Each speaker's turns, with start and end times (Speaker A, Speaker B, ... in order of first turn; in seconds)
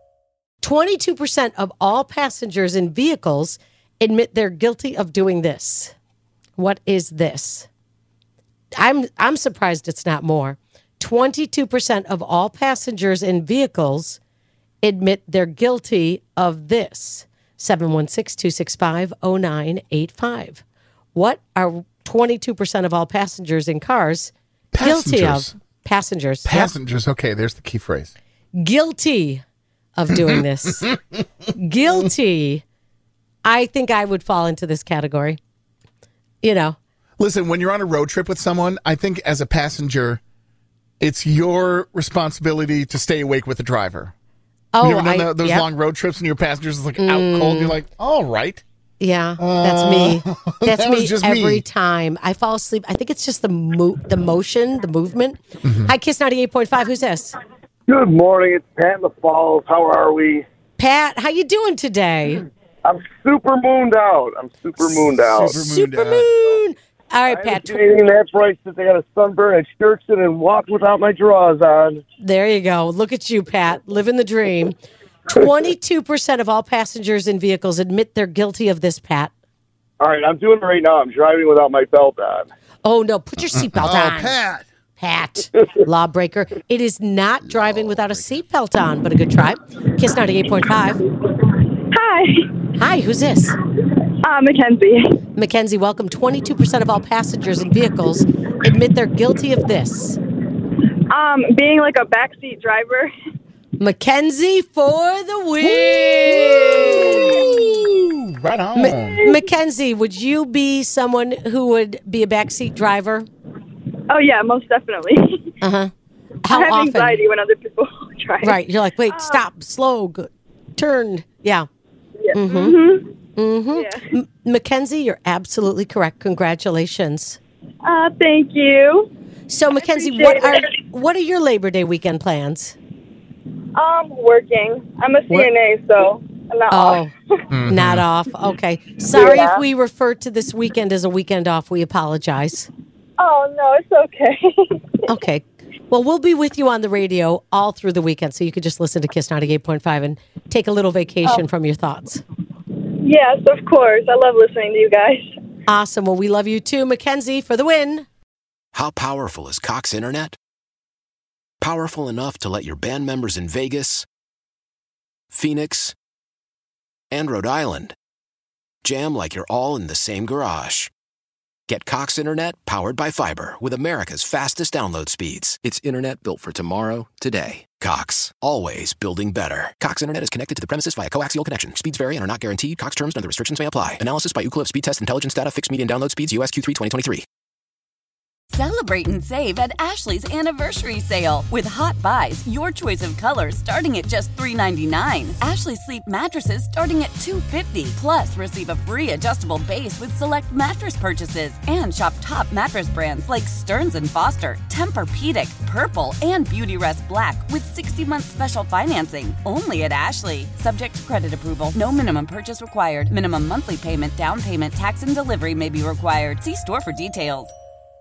Speaker A: 0.6-5.9, 6.6-7.7, 8.8-14.2, 14.8-20.6, 21.1-26.7, 28.6-29.4, 30.0-31.0, 31.6-32.6, 33.4-35.4, 36.4-36.8, 44.7-45.7, 47.0-47.8, 49.0-57.4, 60.8-62.4, 65.0-67.8, 72.2-74.7, 75.3-79.3, 82.8-84.4, 85.0-91.0, 92.8-93.6, 95.3-100.2, 103.8-107.4, 108.7-113.3, 115.6-115.9, 116.5-117.3, 118.4-121.7, 122.3-122.8, 123.3-127.4, 129.5-132.8, 136.7-137.1, 137.7-142.7, 145.1-152.2, 155.7-158.1
Speaker B: 24.7-25.6, 26.4-28.1, 37.2-40.2, 41.0-44.1, 44.8-48.6, 49.4-51.6, 55.6-55.9, 65.4-66.3, 83.7-84.6, 105.6-109.2, 137.5-138.1
Speaker C: 57.9-60.4, 62.8-65.6, 67.3-72.0, 80.0-82.5
Speaker D: 91.9-92.5, 94.2-95.2, 101.1-103.1, 114.1-115.5, 116.5-118.5, 119.1-119.4, 122.2-123.1, 123.7-124.0, 127.8-129.1, 129.8-130.8, 133.7-137.4, 139.1-139.6, 143.2-145.0, 153.0-155.2
Speaker E: 158.7-160.3, 161.6-164.1, 165.3-165.9, 167.1-167.9, 168.8-170.9, 171.7-187.2
Speaker F: 188.5-217.5